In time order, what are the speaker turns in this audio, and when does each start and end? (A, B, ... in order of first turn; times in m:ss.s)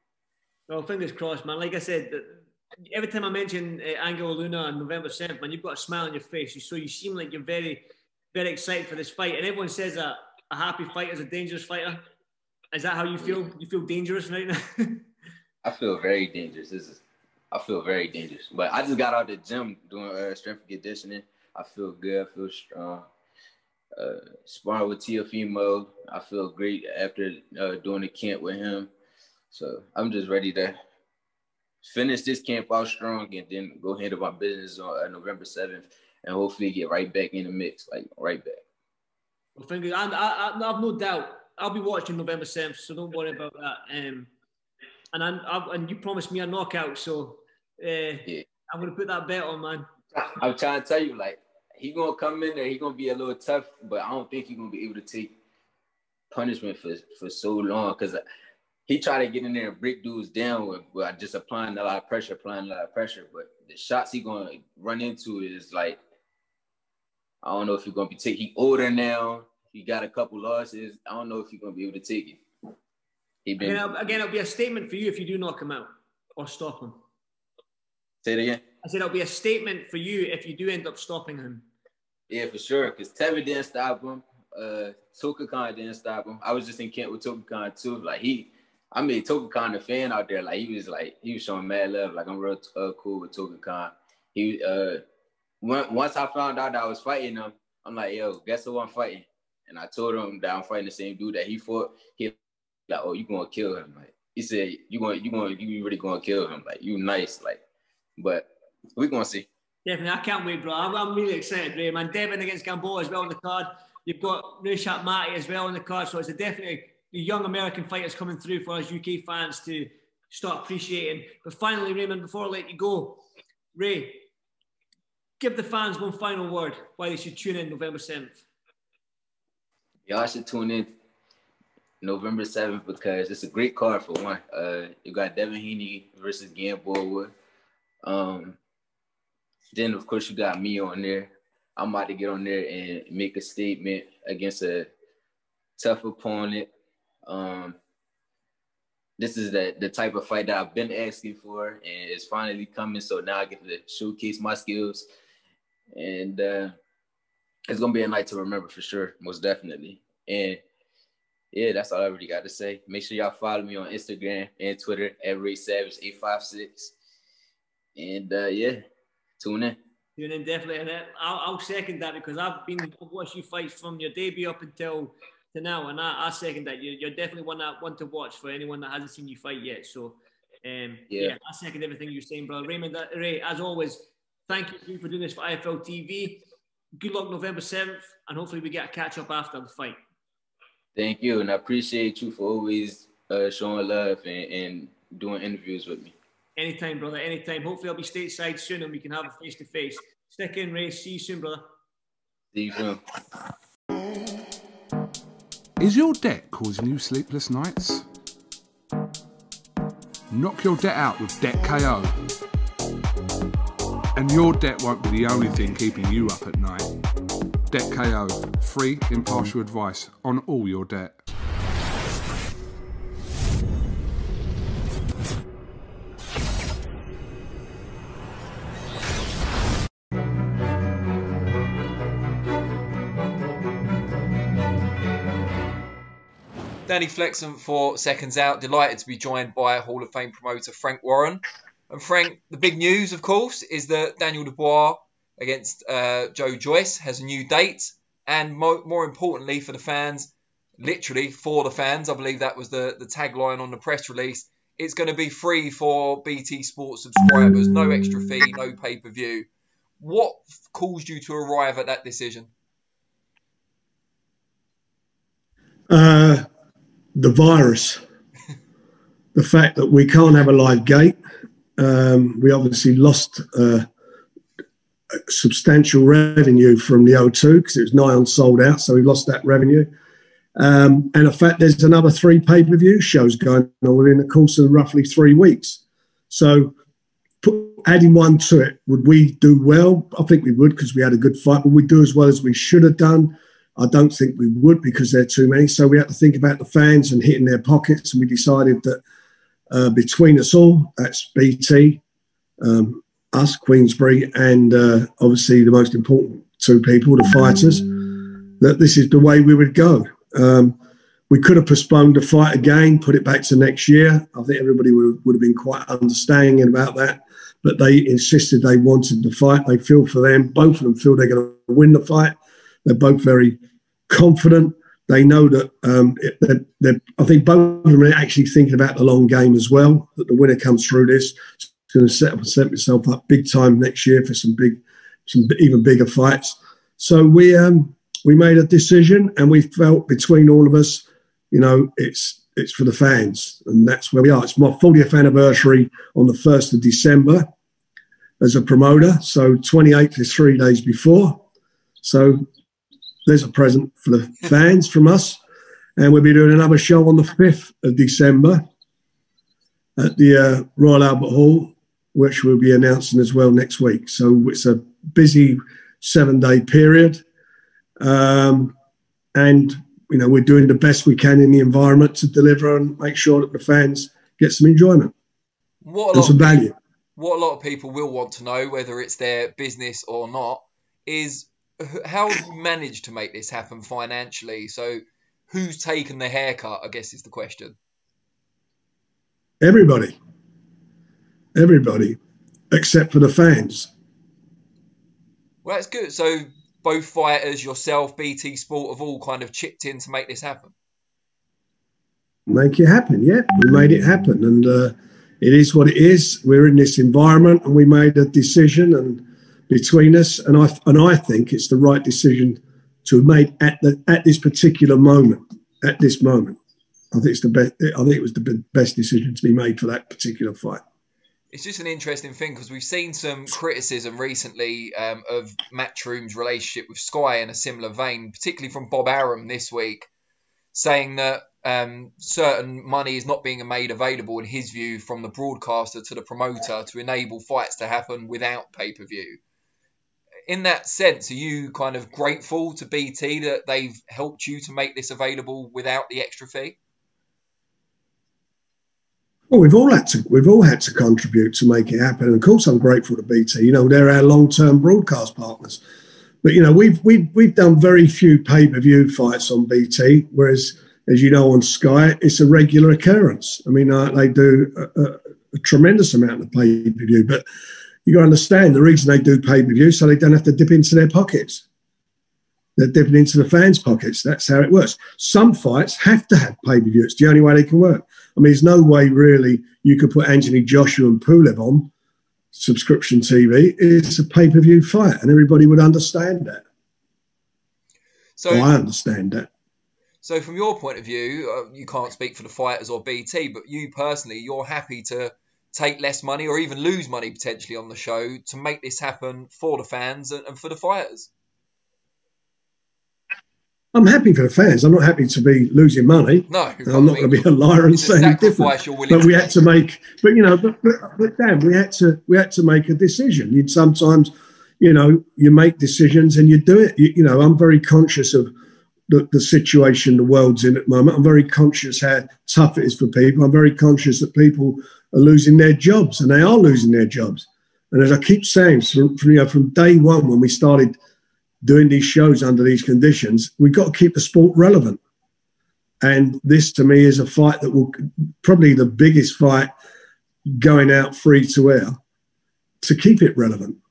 0:00.7-0:12.0 A
0:12.7-0:15.0 A
0:13.2-0:13.5 B
0:15.6-0:17.0 B
0:17.5-0:23.0 B
0:24.0-0:28.9 B
0:29.5-0:30.8 B
0:31.8-0:38.6 B
0:39.6-0:44.3 A
0:45.1-0:49.8 A
0:50.1-0:55.3 B
0:56.3-0:58.2 B
0:58.9-1:06.0 B
1:07.4-1:12.4 B
1:13.4-1:14.0 B
1:13.6-1:17.0 A
1:18.2-1:18.6 B
1:18.8-1:21.6 A
1:22.3-1:35.0 B
1:35.6-1:42.3 B
1:42.9-1:47.6 B
1:48.2-1:49.5 B
1:49.8-2:03.2 A
2:03.7-2:04.2 A
2:05.4-2:08.4 A
2:10.1-2:10.9 B
2:12.0-2:17.3 B
2:18.0-2:18.6 B
2:19.7-2:24.9 B
2:25.8-2:26.7 B
2:27.2-2:27.8 B
2:29.2-2:35.0 B
2:35.9-2:36.7 B
2:37.7-2:40.6 B
2:41.5-2:46.9 B
2:48.0-2:48.8 B
2:49.4-2:49.8 B
2:50.2-3:06.4 A
3:01.1-3:01.4 B
3:07.0-3:10.0 A
3:11.0-3:16.1 B
3:16.6-3:21.6 A
3:22.5-3:23.0 B
3:25.8-3:28.0 C
3:30.3-3:32.2 C
3:34.1-3:36.9 C
3:37.7-3:41.2 C
3:56.8-4:19.5 D
4:20.0-4:22.5 D
4:25.9-4:26.5 E
4:27.2-4:28.0 E
4:29.3-4:31.2 E
4:31.8-4:33.9 E
4:35.3-4:39.9 E
4:40.6-4:46.7 E
4:47.4-4:59.0 E
4:59.7-5:02.0 E
5:02.6-5:07.8 E
5:08.6-5:10.8 E
5:11.3-5:23.6 E
5:24.1-5:47.5 E
5:48.4-5:51.4 E
5:52.0-5:52.5 E
5:53.2-5:55.4 E
5:56.0-5:58.6 E
6:00.0-6:07.2 E
6:08.0-6:08.7 E
6:09.3-6:15.1 E
6:15.8-6:16.6 D
6:16.1-6:16.7 E
6:17.2-6:27.8 D
6:29.6-6:30.1 E
6:31.6-6:32.2 E
6:32.7-6:33.9 E
6:35.6-6:40.7 D
6:42.5-6:56.6 E
6:57.1-7:00.8 E
7:01.5-7:10.1 D
7:10.7-7:19.4 D
7:20.5-7:26.8 D
7:29.5-7:35.8 E
7:36.4-7:47.4 E
7:48.0-7:51.6 E
7:52.8-8:01.9 E
8:02.5-8:06.6 E
8:08.4-8:08.7 D
8:08.5-8:09.5 E
8:10.2-8:21.3 D
8:23.9-8:38.5 E
8:26.5-8:29.6 D
8:39.1-8:51.0 E
8:51.6-8:55.0 E
8:56.0-8:59.7 E
9:00.6-9:02.0 E
9:02.8-9:03.8 E